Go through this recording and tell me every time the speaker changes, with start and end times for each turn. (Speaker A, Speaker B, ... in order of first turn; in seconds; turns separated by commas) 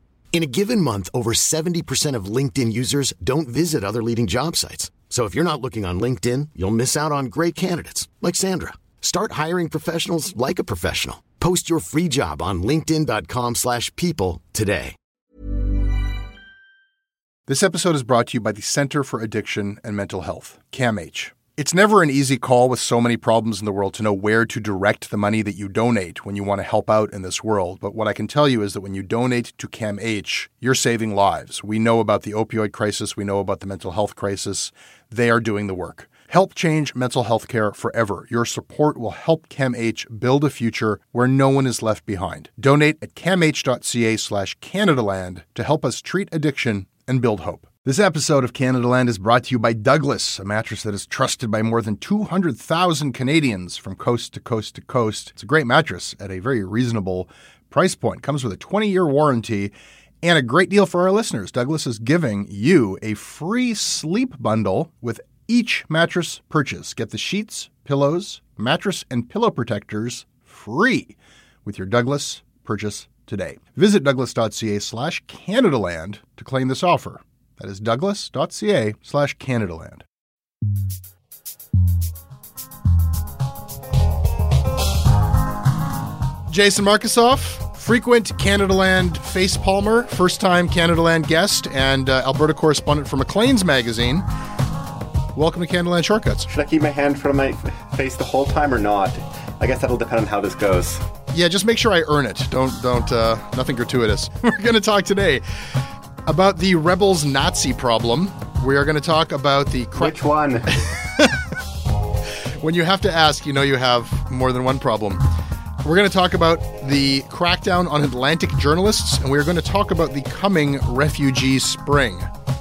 Speaker A: 0.3-14.9, Speaker B: 17.5-80.0, Speaker B: 86.5-94.3, Speaker B: 95.3-96.5, Speaker C: 96.5-101.1, Speaker B: 101.3-105.4, Speaker B: 106.3-110.2, Speaker C: 110.0-110.8, Speaker B: 110.9-111.3, Speaker B: 112.6-115.2, Speaker B: 115.8-122.3